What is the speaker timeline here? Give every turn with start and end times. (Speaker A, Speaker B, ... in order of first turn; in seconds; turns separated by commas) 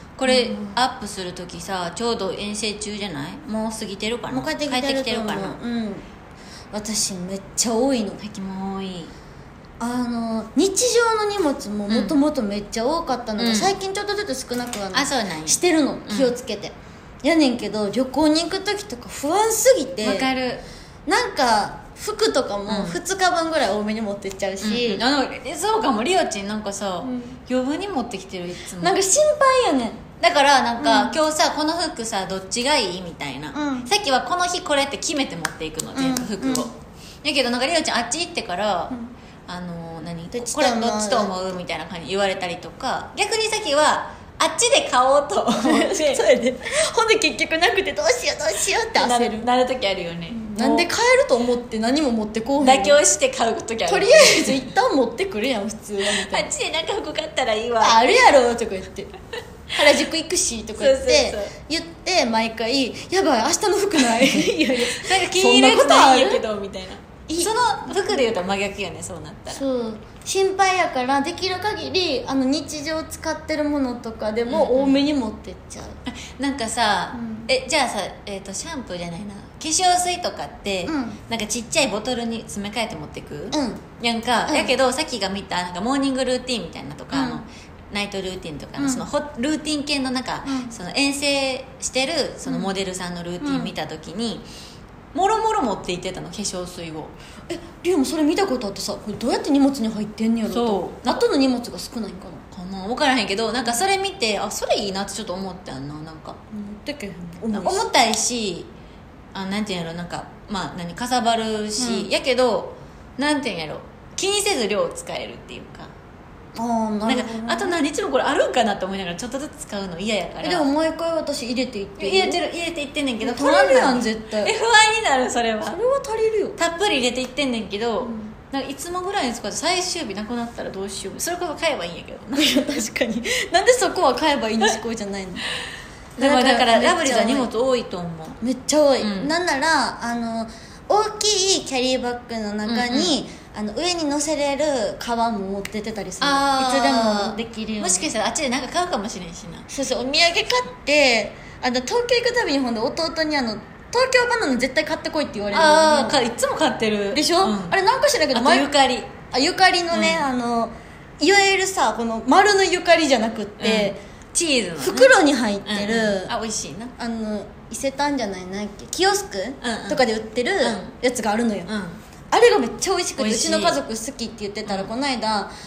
Speaker A: 0.2-5.6, Speaker B: 0.3-0.6, Speaker B: 4.3-6.0, Speaker B: 6.7-8.2, Speaker A: 8.2-9.1, Speaker B: 9.8-20.3, Speaker A: 11.9-12.2, Speaker A: 13.4-13.8, Speaker A: 14.9-16.4, Speaker A: 20.0-20.6, Speaker B: 21.1-25.0, Speaker A: 22.7-23.0, Speaker A: 24.6-29.0, Speaker B: 27.0-27.4, Speaker B: 28.8-30.0, Speaker A: 30.2-38.9, Speaker B: 30.8-31.2, Speaker B: 33.5-33.9, Speaker B: 36.0-36.7, Speaker A: 39.5-46.2, Speaker B: 40.3-41.3, Speaker B: 45.6-49.5, Speaker A: 49.0-50.9, Speaker B: 50.4-53.0, Speaker A: 52.6-54.7, Speaker B: 53.9-56.5, Speaker A: 56.0-58.2, Speaker B: 57.8-59.1, Speaker B: 59.7-66.4, Speaker A: 60.8-61.5, Speaker A: 64.9-69.6, Speaker B: 67.3-67.5, Speaker B: 69.5-76.0, Speaker A: 74.5-75.1, Speaker A: 76.1-94.5, Speaker B: 77.1-77.5, Speaker B: 80.9-81.2, Speaker B: 83.5-83.8, Speaker B: 84.5-84.7, Speaker B: 87.1-87.4, Speaker B: 88.8-89.1, Speaker B: 90.5-90.7, Speaker B: 92.5-92.7, Speaker B: 93.4-93.7, Speaker A: 95.1-97.2, Speaker B: 97.5-102.4, Speaker A: 100.5-101.2, Speaker A: 102.5-106.4, Speaker B: 106.5-107.8, Speaker A: 107.5-108.7, Speaker A: 109.3-115.9, Speaker B: 111.8-112.1, Speaker B: 116.5-117.8, Speaker A: 117.0-120.7, Speaker B: 120.4-122.4, Speaker A: 122.0-125.8, Speaker B: 123.2-124.5, Speaker B: 125.7-126.6, Speaker A: 126.6-132.8, Speaker B: 128.0-128.3, Speaker B: 132.3-135.4, Speaker A: 136.2-138.4, Speaker B: 136.2-137.5, Speaker B: 138.4-148.1, Speaker A: 139.0-139.3, Speaker A: 142.7-143.2, Speaker A: 146.2-149.7, Speaker B: 149.7-156.2, Speaker A: 155.5-157.8, Speaker B: 157.1-158.7, Speaker A: 158.3-159.1, Speaker B: 159.3-164.0, Speaker A: 159.9-160.3, Speaker A: 163.6-166.9, Speaker B: 164.8-166.3, Speaker B: 167.0-171.7, Speaker A: 169.6-170.0, Speaker A: 170.6-170.9, Speaker A: 171.7-172.0, Speaker B: 172.3-175.5, Speaker A: 173.2-173.8, Speaker A: 174.7-174.9